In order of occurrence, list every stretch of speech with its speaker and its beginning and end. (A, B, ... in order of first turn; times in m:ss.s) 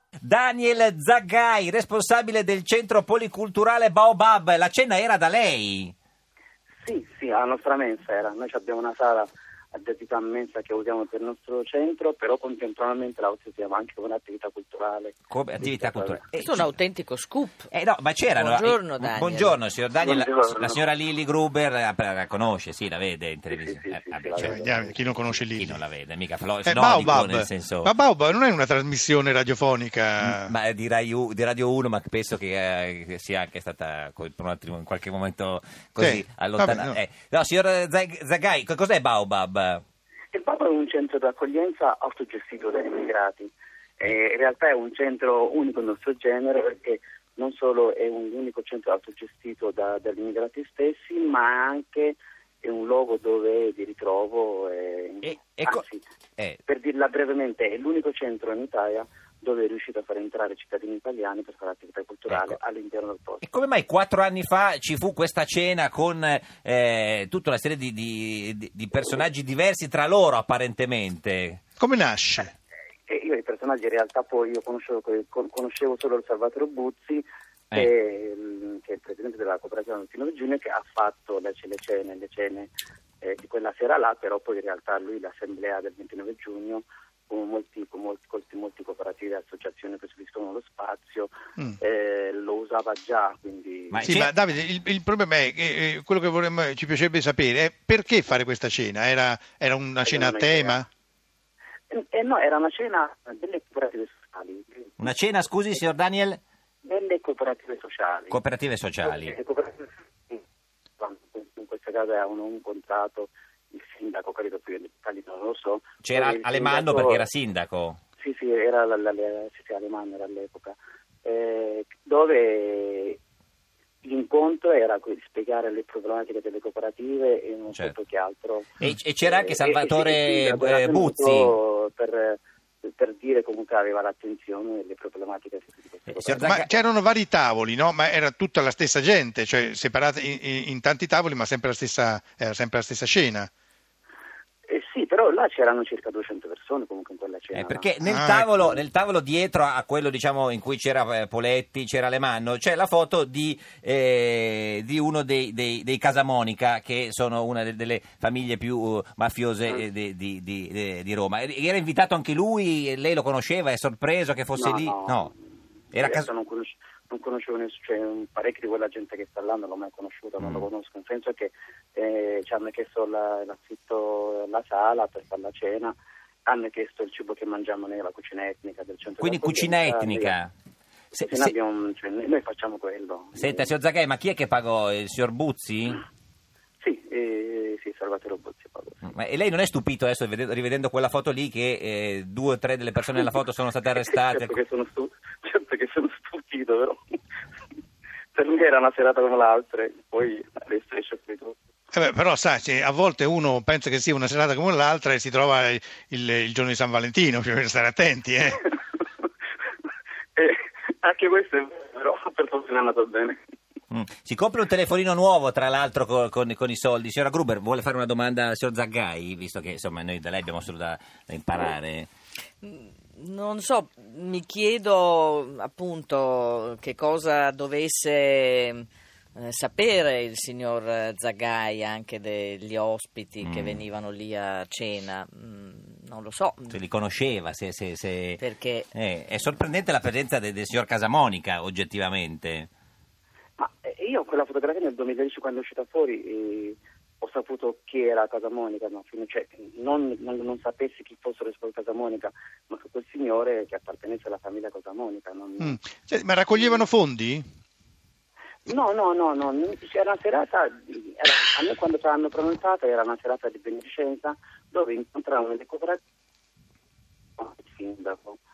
0:00.2-0:05.9 A
0:06.8-0:16.2 B
0:15.3-0:16.7 A
0:16.3-0:17.7 C
0:17.7-0:27.9 A
0:18.3-0:19.6 C
0:20.0-0:20.8 B
0:23.5-0:25.0 B
0:24.4-0:25.8 D
0:26.6-0:30.5 D
0:30.2-0:39.8 A
0:36.0-0:37.0 D
0:40.3-0:56.0 B
0:55.2-0:55.8 A
0:56.6-1:03.4 B
1:02.3-1:02.6 A
1:03.4-1:11.6 A
1:11.8-1:12.5 D
1:13.1-1:22.7 B
1:23.2-1:34.1 B
1:33.9-1:34.3 A
1:34.0-1:40.9 D
1:40.0-1:40.8 B
1:41.9-1:45.0 B
1:45.0-1:46.4 A
1:46.8-1:48.4 B
1:48.3-1:49.4 A
1:49.0-1:50.4 B
1:51.0-1:57.2 B
1:56.0-1:58.0 A
1:58.2-2:03.2 B
2:04.0-2:16.5 B
2:08.8-2:11.5 A
2:16.1-2:16.7 A
2:16.3-2:23.5 D
2:24.7-2:27.9 B
2:27.5-2:45.3 A
2:28.0-2:28.6 D
2:44.6-2:45.3 B
2:45.9-2:46.3 A
2:46.0-2:55.9 B
2:50.4-2:50.6 A
2:56.4-3:00.4 B
2:59.2-3:00.5 A
3:01.1-3:01.5 A
3:01.1-3:03.7 B
3:03.3-3:06.0 A
3:06.8-3:09.1 B
3:09.0-3:14.6 A
3:13.9-3:17.0 B
3:18.3-3:21.6 B
3:21.9-3:28.6 D
3:30.3-3:33.4 B
3:33.9-3:42.1 A
3:42.6-3:56.8 C
3:53.4-3:53.8 A
3:56.7-3:58.4 A
3:58.4-3:58.9 C
3:58.9-4:02.7 A
4:03.6-4:15.8 B
4:15.6-4:17.4 D
4:16.5-4:16.9 B
4:18.6-4:26.0 B
4:27.4-4:28.4 B